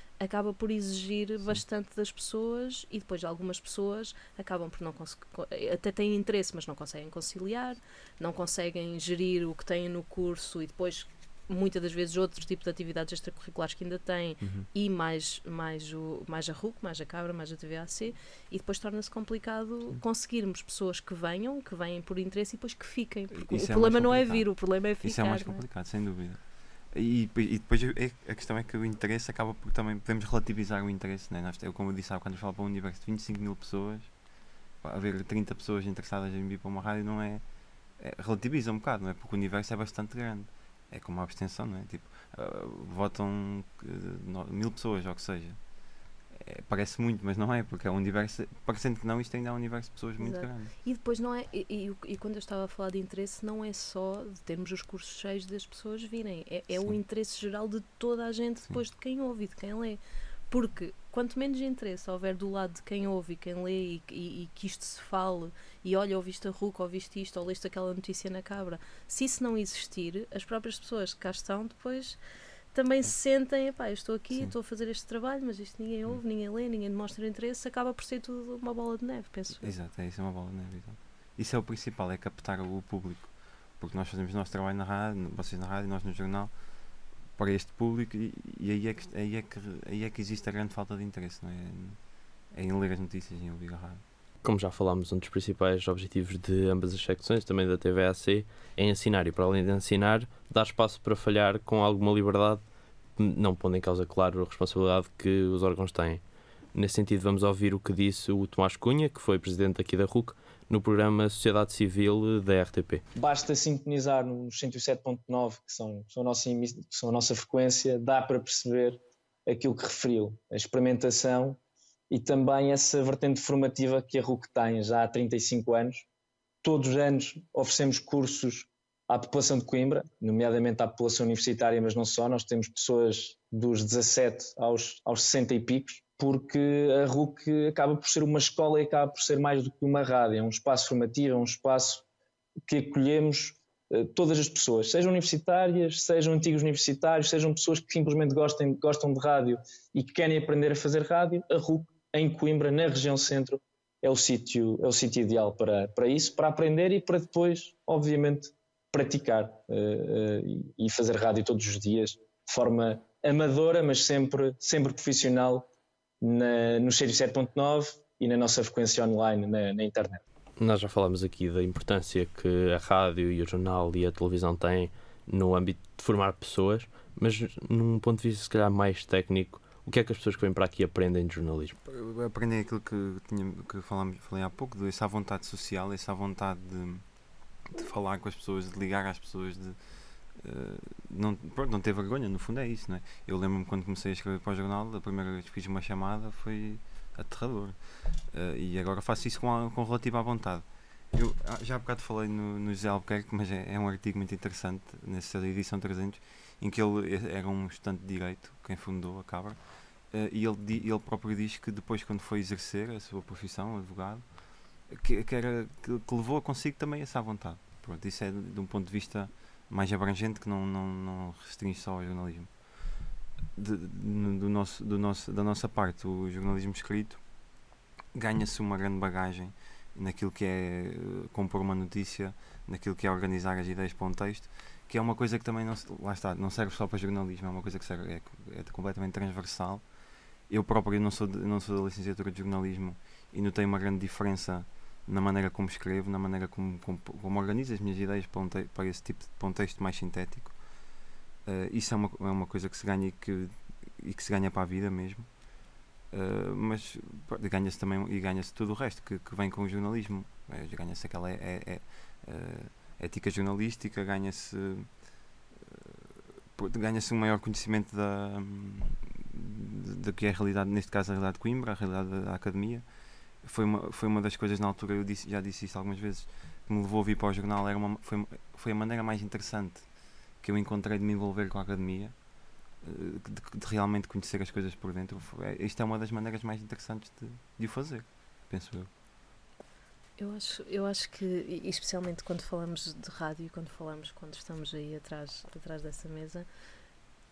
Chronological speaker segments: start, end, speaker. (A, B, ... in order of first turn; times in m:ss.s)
0:00.2-0:25.6 A
0:14.4-0:14.7 B
0:23.3-0:34.1 B
0:34.8-0:37.4 B
0:38.0-0:45.6 B
0:46.3-0:50.7 B
0:50.2-1:12.2 A
0:56.7-0:57.0 B
1:12.7-1:19.7 A
1:19.5-1:26.5 B
1:27.4-1:32.0 B
1:32.5-1:34.0 B
1:34.4-1:42.6 C
1:43.2-1:46.2 C
1:46.7-1:53.0 C
1:53.1-2:01.6 D
2:02.1-2:06.0 D
2:06.6-2:22.0 D
2:22.6-2:45.7 D
2:46.2-2:50.2 D
2:50.6-3:01.8 C
3:01.8-3:07.0 B
3:07.7-3:09.8 B
3:10.4-3:17.8 B
3:18.3-3:29.6 B
3:30.1-3:34.2 B
3:34.9-3:42.5 B
3:43.6-3:47.2 B
3:48.1-3:59.8 B
4:00.5-4:10.5 B
4:11.4-4:15.3 B
4:16.1-4:24.9 B
4:25.5-4:32.8 B
4:33.4-4:39.8 B
4:40.4-4:42.1 B
4:42.8-4:48.9 B
4:50.2-4:56.4 A